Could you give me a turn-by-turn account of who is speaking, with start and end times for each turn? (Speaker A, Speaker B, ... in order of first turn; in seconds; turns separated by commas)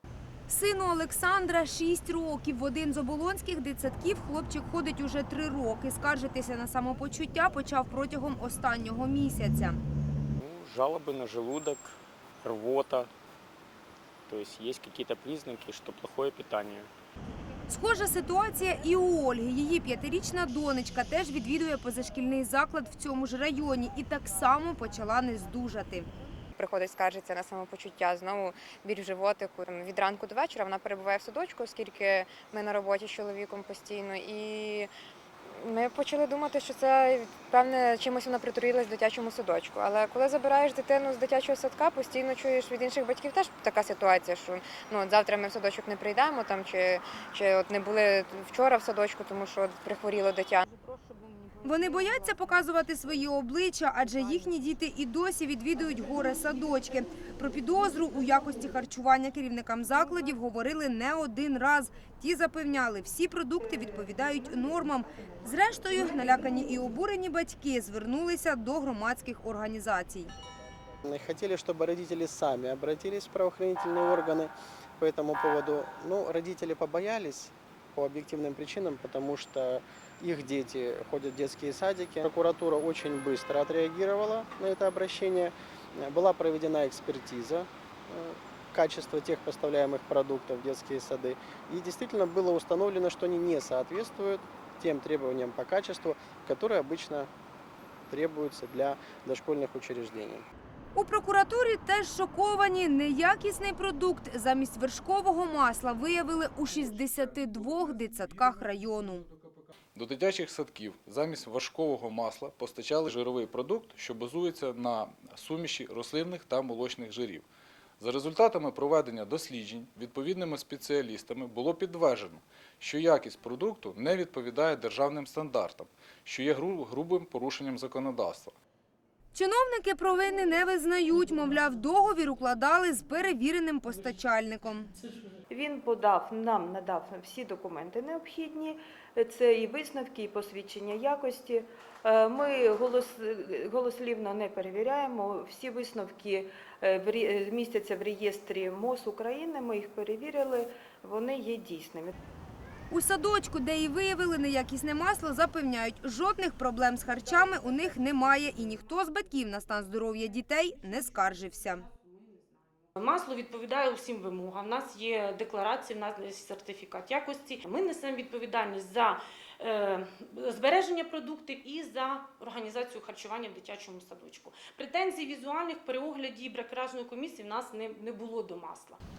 Speaker A: 0.5-9.8, Speaker B: 10.3-13.1, Speaker B: 14.3-16.9, Speaker A: 17.7-26.1, Speaker C: 26.6-34.9, Speaker C: 35.5-50.6, Speaker A: 51.6-70.3, Speaker D: 71.0-97.3, Speaker D: 98.1-100.5, Speaker A: 100.9-109.2, Speaker E: 109.9-117.5, Speaker E: 118.0-128.5, Speaker A: 129.3-134.9, Speaker F: 135.5-152.1, Speaker A: 152.9-161.8, Speaker G: 162.9-179.0